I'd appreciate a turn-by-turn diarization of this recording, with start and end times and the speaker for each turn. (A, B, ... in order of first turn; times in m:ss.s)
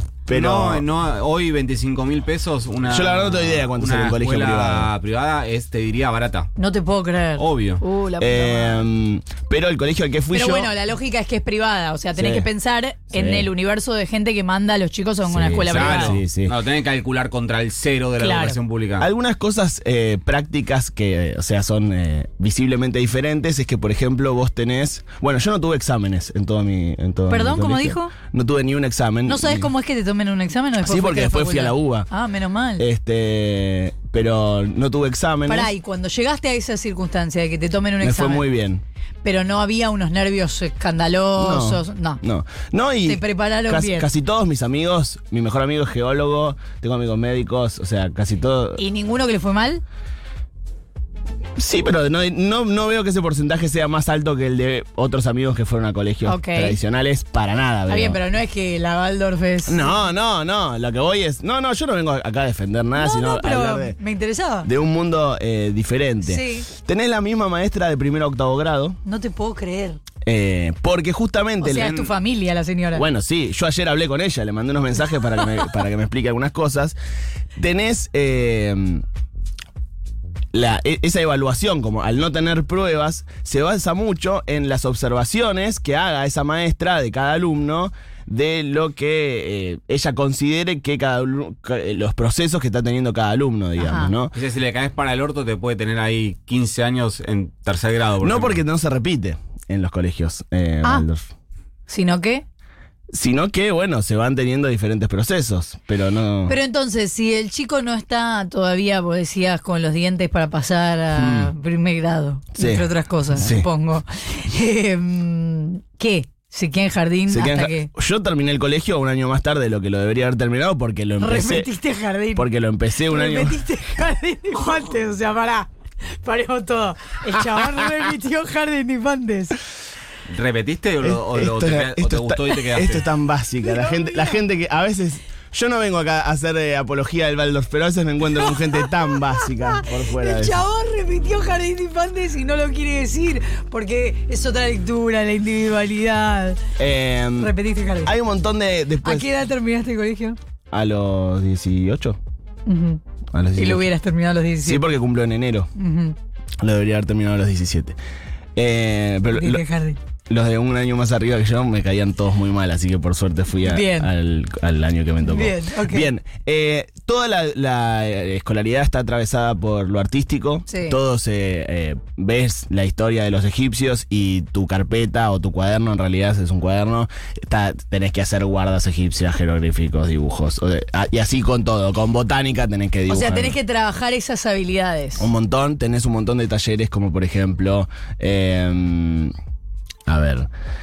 0:00.3-0:00.9 A
0:00.3-0:06.5 B
0:02.8-0:04.9 A
0:06.6-0:08.9 C
0:07.4-0:07.8 B
0:08.2-0:10.7 A
0:10.3-0:16.2 C
0:12.2-0:12.5 A
0:13.1-0:13.5 A
0:15.2-0:16.6 A
0:15.7-0:19.1 B
0:18.2-0:18.6 C
0:19.0-0:29.7 A
0:27.3-0:28.1 C
0:29.3-0:32.9 C
0:30.8-0:32.1 A
0:32.8-0:35.7 A
0:35.5-0:38.4 C
0:38.0-0:38.8 A
0:39.2-0:42.2 C
0:41.4-0:48.8 A
0:43.0-0:44.1 C
0:48.8-0:49.8 C
0:51.6-0:58.2 A
0:56.2-0:56.8 C
0:57.9-0:59.9 C
0:59.7-1:04.0 A
1:03.0-1:04.7 C
1:04.6-1:09.0 A
1:06.2-1:06.7 C
1:09.0-1:10.0 C
1:10.2-1:12.1 A
1:11.6-1:13.1 C
1:12.9-1:17.0 A
1:17.6-1:19.0 A
1:20.5-1:34.4 A
1:33.8-1:34.1 C
1:34.4-1:38.6 B
1:38.2-1:41.3 A
1:41.9-1:42.4 C
1:43.1-1:46.6 A
1:46.5-1:57.9 C
1:51.1-1:51.5 A
1:52.6-1:53.7 A
1:57.3-2:01.7 A
2:01.2-2:02.5 C
2:02.4-2:03.6 A
2:03.0-2:09.6 C
2:10.3-2:13.0 B
2:11.0-2:20.6 A
2:13.6-2:14.4 C
2:18.4-2:26.6 C
2:26.8-2:29.3 A
2:27.4-2:28.1 C
2:29.0-2:30.4 C
2:30.7-2:32.2 A
2:32.7-2:33.0 C
2:33.3-2:33.9 A
2:33.6-2:34.9 C
2:34.6-2:35.7 A
2:35.8-2:36.2 C
2:36.6-2:38.0 A
2:38.6-2:39.6 A
2:39.3-2:40.0 C
2:40.3-3:03.6 A
2:43.6-2:44.1 C
2:45.2-2:46.1 C
2:50.7-2:51.0 C
3:03.1-3:05.3 C
3:05.2-3:09.3 A
3:10.1-3:10.5 A